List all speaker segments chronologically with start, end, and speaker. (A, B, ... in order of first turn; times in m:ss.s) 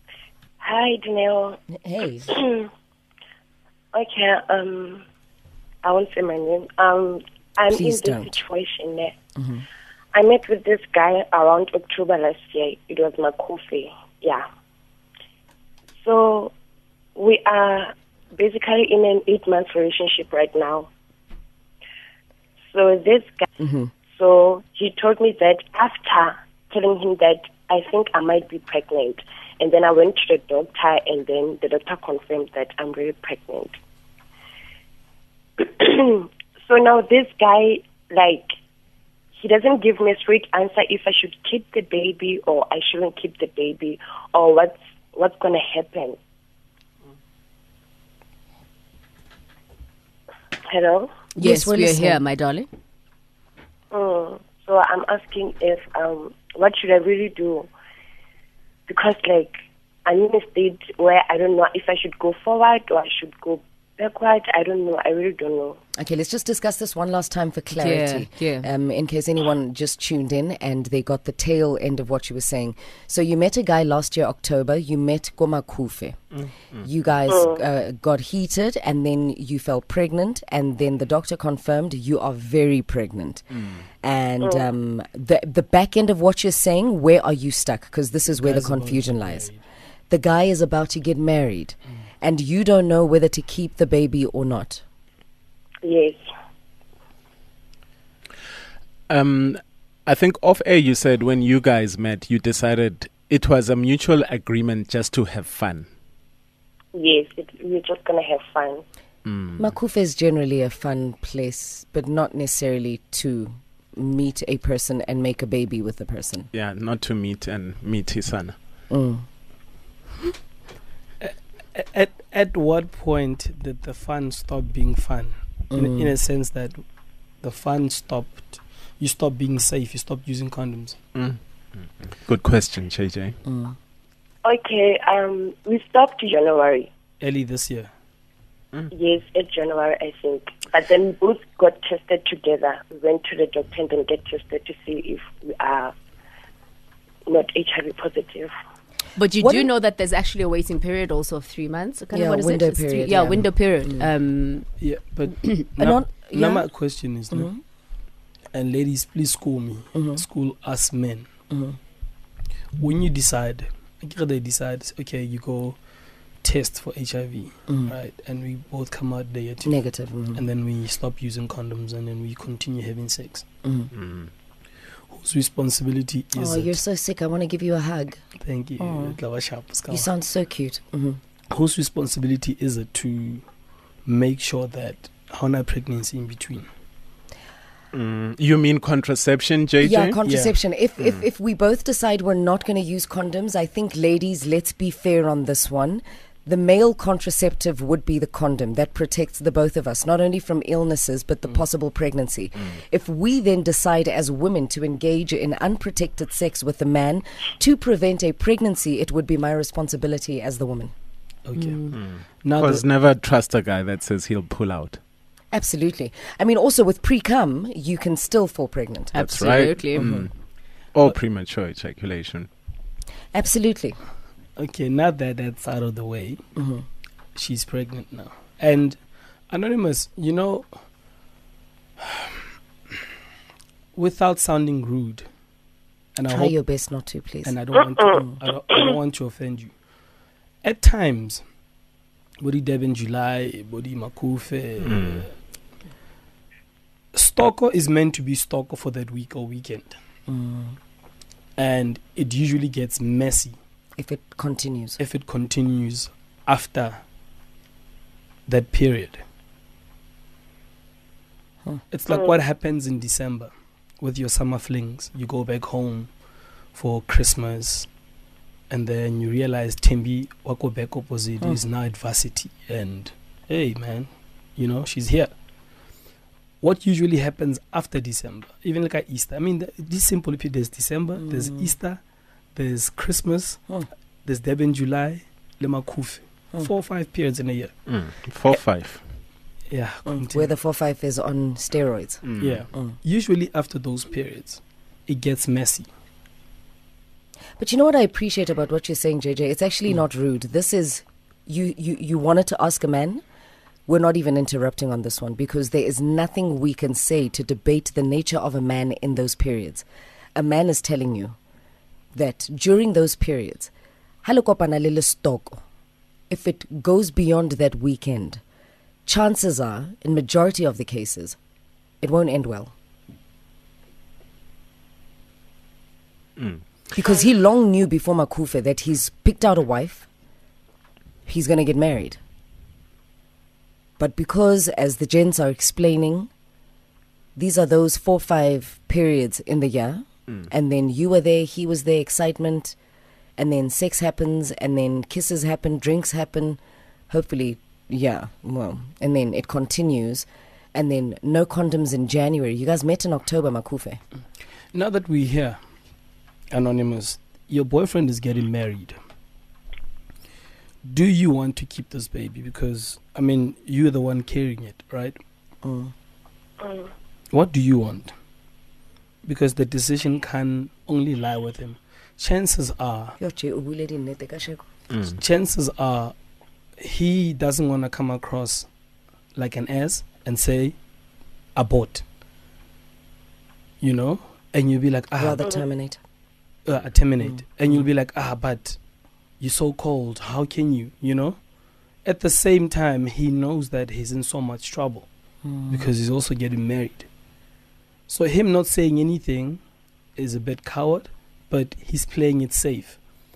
0:00.6-0:01.6 A
0:01.7-0:02.3 B
0:02.3-0:02.7 A
0:03.9-0:05.0 A
0:05.8-0:09.1 A
0:07.7-0:08.3 B
0:09.4-0:09.6 B
0:10.1-0:14.4 A
0:16.0-0:16.5 A
0:17.2-0:20.9 A
0:22.7-0:23.4 A
0:23.6-0:23.9 B
0:24.1-0:33.8 A
0:35.6-0:38.5 A
0:39.4-0:46.2 A
0:50.6-0:51.1 A
0:51.3-0:52.7 C
0:51.4-0:52.2 B
0:53.9-0:57.7 A
0:58.9-1:05.8 A
1:06.0-1:16.2 B
1:07.8-1:08.7 C
1:16.3-1:16.8 D
1:16.8-1:23.5 B
1:17.3-1:17.6 A
1:24.0-1:29.5 B
1:28.3-1:29.6 E
1:30.1-1:34.8 B
1:35.8-1:36.2 A
1:39.1-1:45.9 D
1:46.9-1:48.8 A
1:49.2-1:49.7 D
1:49.6-1:56.5 B
1:56.5-1:58.6 D
1:58.9-1:59.2 B
2:01.2-2:06.8 E
2:05.7-2:06.1 B
2:07.4-2:11.0 E
2:11.1-2:13.4 D
2:13.4-2:13.8 B
2:14.4-2:16.9 A
2:17.2-2:17.9 E
2:18.9-2:25.9 A
2:27.3-2:28.5 A
2:29.2-2:34.7 C
2:32.1-2:34.0 B
2:34.8-2:37.6 E
2:35.8-2:37.6 B
2:38.5-2:41.3 E
2:39.9-2:40.2 B
2:41.5-2:41.8 B
2:42.7-2:53.4 E
2:47.7-2:47.9 B
2:49.6-2:50.4 B
2:53.6-2:53.9 B
2:53.9-2:54.3 D
2:55.1-2:56.8 E
2:56.3-2:58.2 B
2:58.4-3:00.1 E
2:58.8-3:01.2 B
3:01.5-3:03.5 E
3:04.0-3:06.7 E
3:07.9-3:10.2 D
3:09.8-3:30.9 B
3:10.2-3:10.6 E
3:31.4-3:32.8 E
3:31.5-3:32.0 C
3:31.9-3:35.0 D
3:35.5-3:39.2 B
3:39.1-3:40.0 C
3:39.2-3:40.4 D
3:40.0-3:40.2 E
3:40.9-3:42.5 D
3:43.3-3:44.0 B
3:44.6-3:46.5 E
3:46.5-3:46.8 B
3:47.3-3:50.8 E
3:53.9-3:55.3 E
3:56.1-3:56.6 E
3:56.2-3:57.6 B
3:57.4-3:59.8 E
4:00.6-4:01.4 E
4:02.4-4:05.3 E
4:04.9-4:05.2 D
4:07.1-4:10.0 E
4:10.3-4:10.8 B
4:11.6-4:13.6 E
4:14.0-4:15.0 B
4:15.0-4:17.0 E
4:18.5-4:19.2 E
4:21.9-4:27.9 E
4:22.1-4:22.4 A
4:28.7-4:35.4 E
4:36.6-4:42.0 E
4:41.3-4:41.7 B
4:42.5-4:47.8 E
4:47.8-4:49.1 D
4:49.7-4:50.5 E
4:50.1-4:53.0 B
4:52.2-4:52.6 D
4:52.4-4:55.9 E
4:57.6-5:03.2 B
5:03.9-5:11.4 B
5:12.1-5:13.7 B
5:14.2-5:15.6 B
5:16.3-5:18.4 B
5:19.0-5:21.4 B
5:22.0-5:22.7 B
5:26.4-5:26.6 D
5:26.9-5:30.1 B
5:31.2-5:32.2 B
5:34.0-5:36.3 B
5:37.4-5:42.8 B
5:43.4-5:54.0 B
5:54.7-5:55.6 E
5:56.5-5:59.0 E
6:00.8-6:05.2 E
6:05.6-6:05.9 B
6:06.6-6:06.9 A
6:07.3-6:08.1 E
6:09.2-6:13.2 E
6:13.2-6:14.6 B
6:14.9-6:15.2 D
6:15.1-6:16.1 E
6:16.8-6:18.7 E
6:19.3-6:20.8 E
6:21.5-6:22.0 E
6:23.8-6:25.4 E
6:25.2-6:26.0 B
6:26.6-6:28.8 E
6:29.4-6:31.4 E
6:32.0-6:35.1 E
6:35.4-6:35.9 B
6:35.7-6:37.1 E
6:38.1-6:39.6 E
6:40.1-6:43.0 E